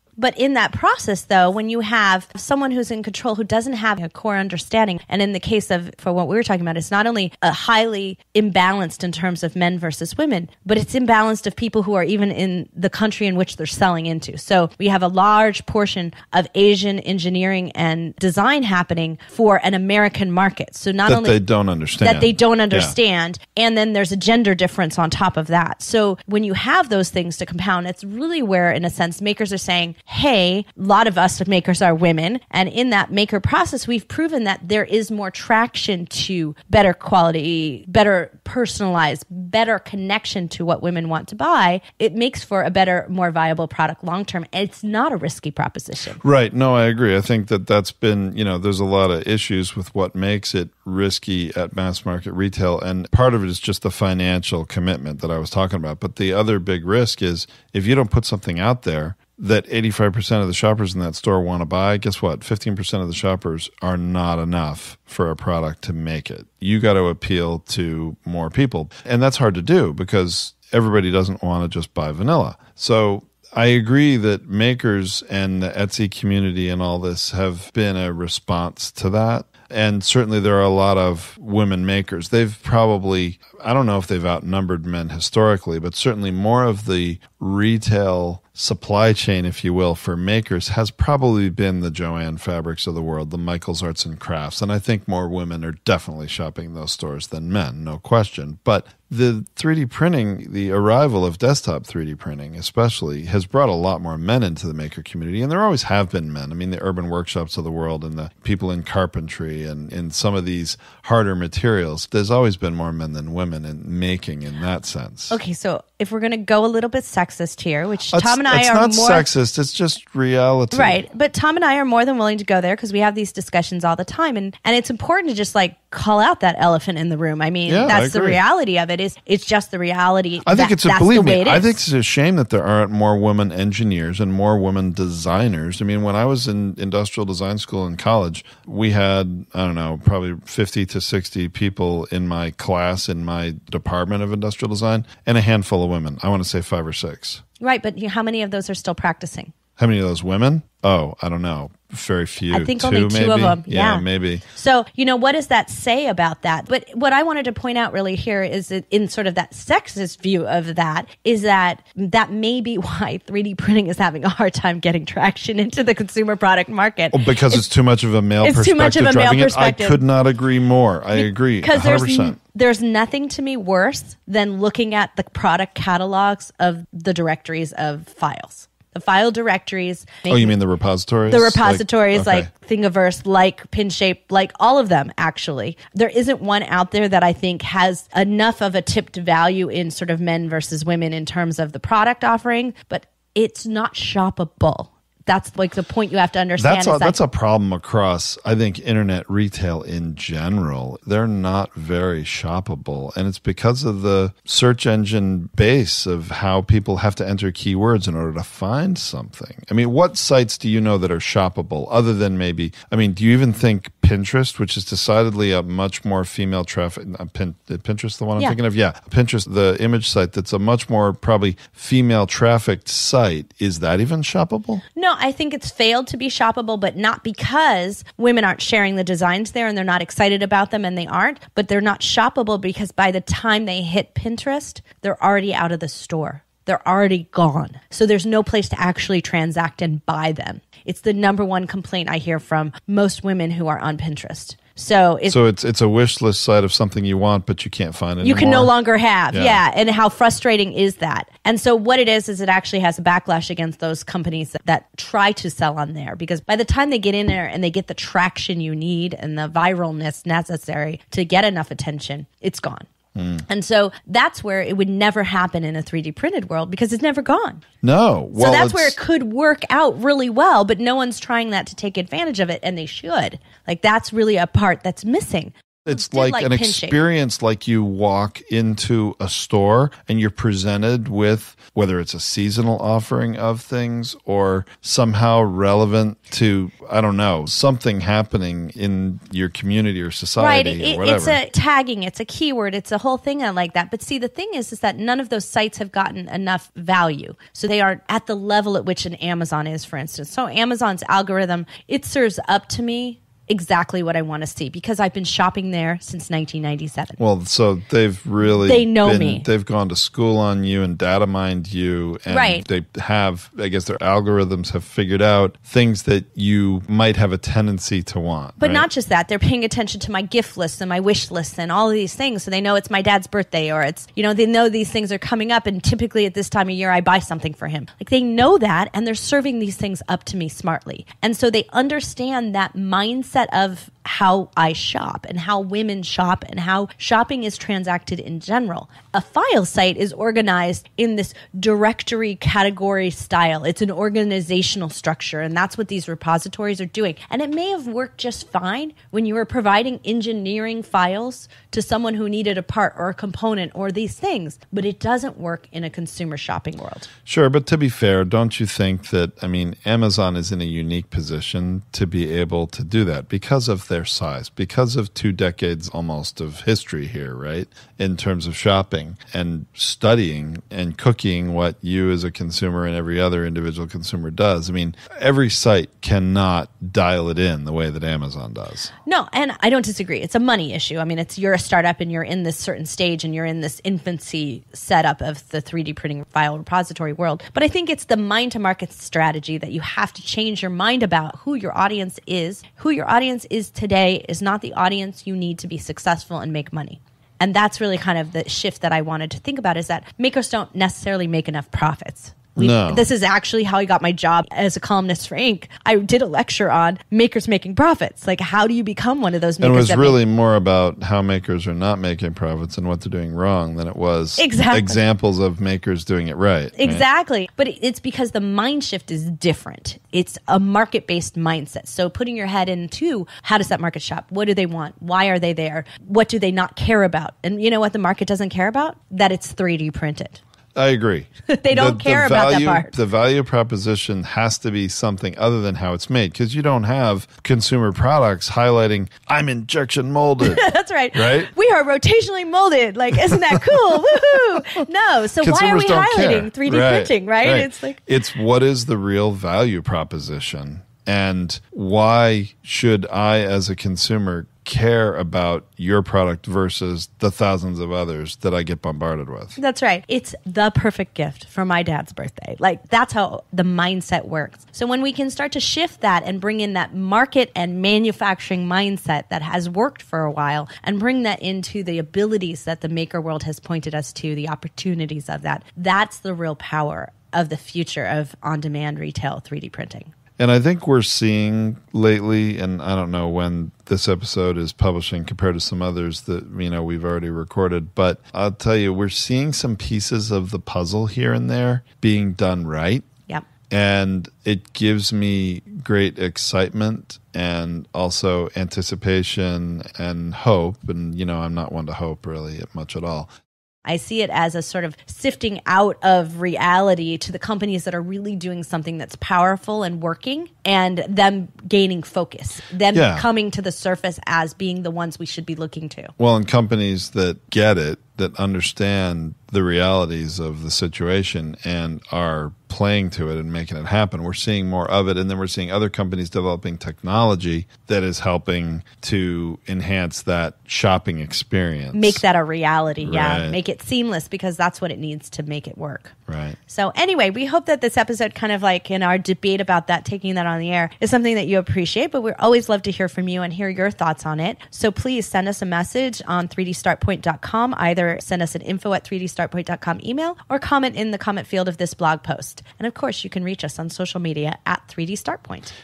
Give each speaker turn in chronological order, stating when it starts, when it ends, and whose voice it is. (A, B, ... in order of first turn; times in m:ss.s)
0:00.2-0:21.4 A
0:21.1-0:22.9 B
0:22.0-0:46.2 A
0:46.2-1:55.3 B
1:55.3-1:59.2 A
1:58.1-2:01.0 B
2:00.7-2:11.8 A
2:07.7-2:08.4 B
2:10.4-2:27.4 B
2:27.6-2:29.5 A
2:29.8-2:34.4 B
2:32.5-2:47.6 A
2:47.1-2:52.4 B
2:48.4-2:50.0 A
2:51.1-3:00.5 A
3:00.3-3:02.5 B
3:01.3-3:17.2 A
3:16.6-3:44.8 B
3:45.0-4:05.4 A
4:05.3-4:08.7 B
4:08.2-4:22.9 A
4:09.3-4:09.6 B
4:23.1-4:23.4 B
4:23.4-4:27.6 A
4:27.8-4:29.0 B
4:28.4-4:37.0 A
4:35.8-4:51.4 B
4:50.4-5:07.2 A
5:07.2-5:18.9 B
5:08.6-5:09.4 A
5:12.3-5:12.6 A
5:18.6-5:57.1 A
5:57.2-6:18.9 B
6:19.0-6:50.2 A
6:42.6-6:43.1 B
6:49.6-6:57.0 B
6:54.4-6:55.0 A
6:56.8-7:10.4 A
7:10.7-7:21.5 B
7:11.5-7:12.9 A
7:20.4-7:28.0 A
7:23.4-7:23.7 B
7:25.4-7:39.6 B
7:39.6-8:00.1 A
8:00.4-8:13.1 B
8:13.7-8:23.3 B
8:23.8-8:36.1 A
8:32.9-8:33.2 B
8:36.2-8:52.2 B
8:51.9-8:56.1 A
8:53.0-8:53.6 B
8:56.3-8:56.6 B
8:56.7-9:15.7 A